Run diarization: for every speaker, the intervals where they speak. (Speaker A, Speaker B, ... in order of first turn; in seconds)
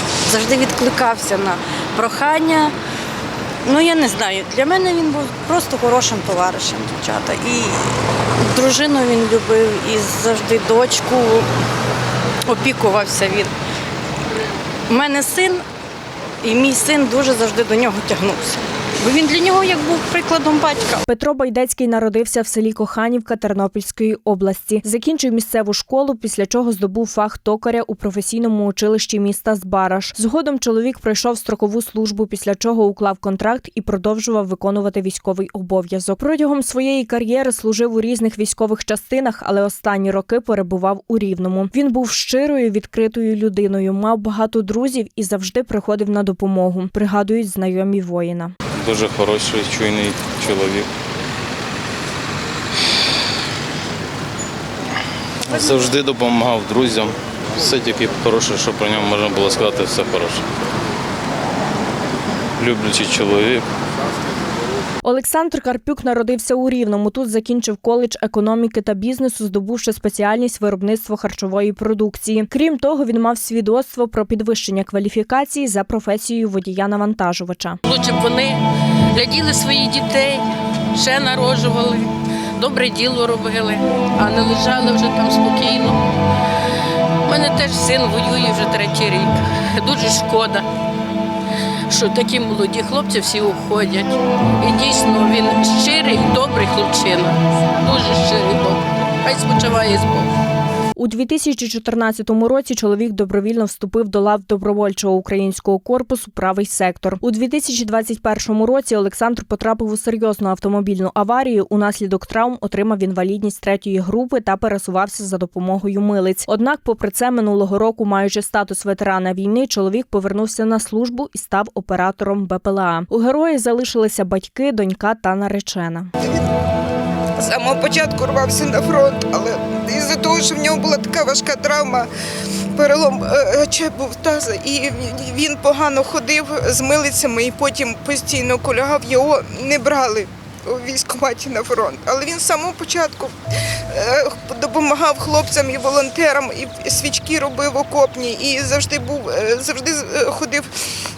Speaker A: 0.3-2.7, 3.6-7.9, 8.4-11.5, 12.5-13.5, 14.9-15.6, 16.4-21.0
Speaker B: 21.1-48.5, 65.0-77.8, 101.0-126.1
Speaker C: 48.8-50.9, 55.4-60.5, 62.6-63.6
Speaker D: 77.9-78.6, 79.1-86.0, 87.2-90.7, 91.9-100.3
Speaker E: 127.4-132.1, 132.8-143.3, 143.9-150.7